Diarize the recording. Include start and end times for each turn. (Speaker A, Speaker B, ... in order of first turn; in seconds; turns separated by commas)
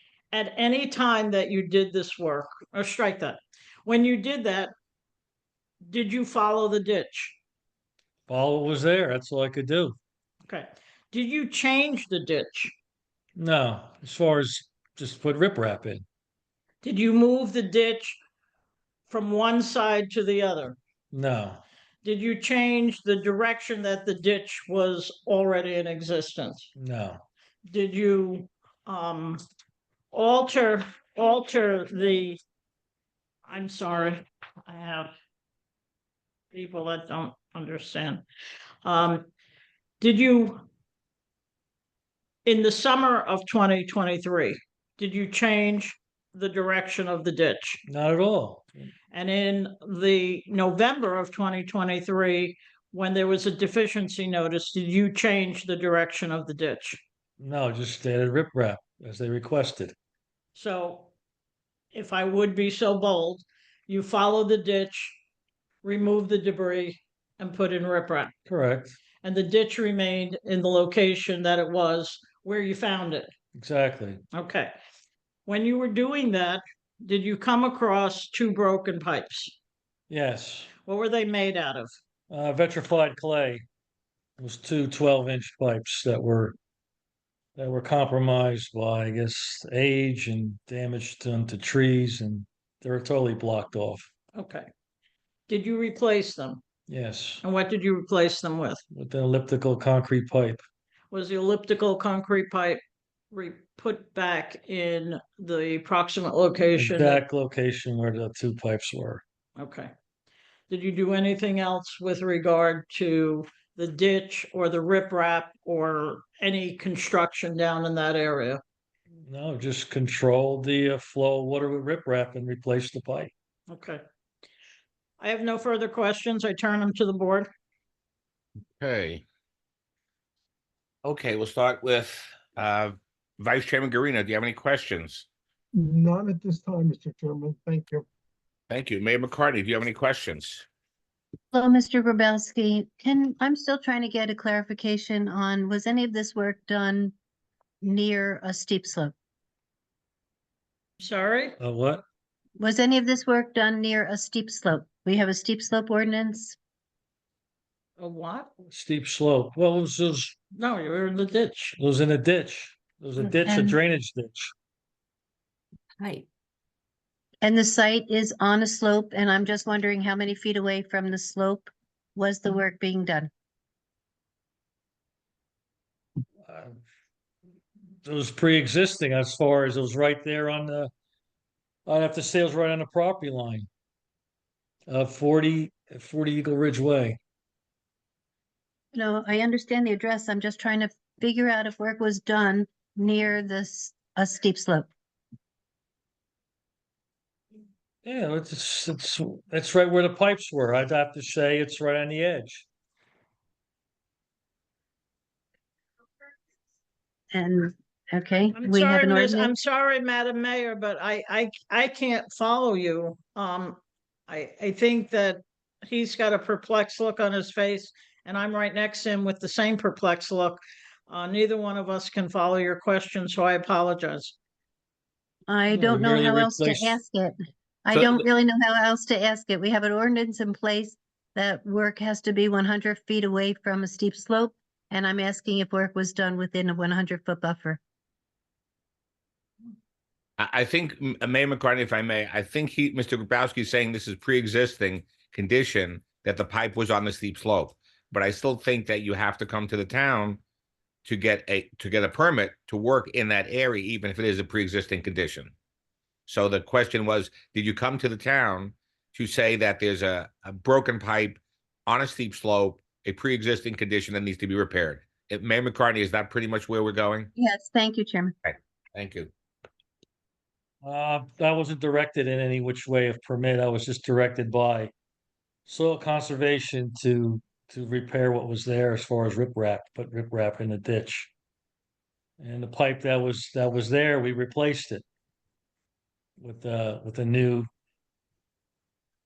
Speaker A: 0.3-4.7, Speaker A: 5.8-7.4, Speaker B: 8.3-10.0, Speaker A: 10.5-12.7, Speaker B: 13.4-16.1, Speaker A: 16.8-18.2, Speaker A: 19.1-20.8, Speaker B: 21.1-21.6, Speaker A: 22.0-26.7, Speaker B: 26.8-27.2, Speaker A: 27.7-29.4, Speaker A: 30.1-32.4, Speaker A: 33.5-35.1, Speaker A: 36.5-38.2, Speaker A: 38.9-39.3, Speaker A: 40.0-40.6, Speaker A: 42.5-47.8, Speaker B: 47.9-48.9, Speaker A: 49.1-57.0, Speaker B: 57.4-60.0, Speaker A: 60.5-61.1, Speaker A: 61.9-65.2, Speaker A: 65.8-68.3, Speaker B: 68.5-69.0, Speaker A: 69.2-73.3, Speaker B: 73.5-74.2, Speaker A: 74.3-74.7, Speaker A: 75.5-79.6, Speaker B: 80.1-80.7, Speaker A: 80.9-81.9, Speaker B: 82.3-83.7, Speaker B: 84.4-86.6, Speaker B: 87.6-94.1, Speaker A: 94.3-94.7, Speaker A: 95.5-96.6, Speaker B: 96.9-97.4, Speaker A: 97.4-98.8, Speaker B: 98.9-100.6, Speaker A: 101.1-102.8, Speaker A: 103.3-107.2, Speaker B: 106.7-109.2, Speaker A: 109.6-109.9, Speaker A: 110.7-118.6, Speaker B: 119.3-123.3, Speaker A: 123.7-124.0, Speaker A: 125.2-127.5, Speaker C: 128.8-129.2, Speaker C: 131.0-135.3, Speaker D: 135.8-138.1, Speaker C: 138.7-140.7, Speaker E: 141.5-147.2, Speaker E: 147.8-149.1, Speaker A: 151.0-151.6, Speaker B: 151.6-152.0, Speaker E: 152.6-156.6, Speaker A: 158.0-158.5, Speaker B: 158.7-160.4, Speaker A: 160.6-161.8, Speaker B: 161.8-164.5, Speaker E: 163.2-163.8, Speaker E: 167.4-173.3, Speaker B: 176.5-176.8, Speaker B: 178.0-180.9, Speaker B: 181.9-183.7, Speaker B: 184.9-187.2, Speaker E: 188.9-194.9, Speaker B: 198.0-202.7, Speaker E: 207.3-209.5, Speaker A: 208.6-224.4, Speaker E: 225.5-237.8, Speaker B: 225.7-227.0, Speaker B: 227.9-228.3, Speaker C: 240.4-250.4, Speaker C: 251.1-255.5, Speaker C: 256.3-267.3, Speaker E: 267.4-268.4, Speaker C: 268.4-269.3, Speaker B: 270.8-274.9, Speaker B: 275.7-281.3, Speaker B: 282.4-285.0, Speaker B: 286.4-287.7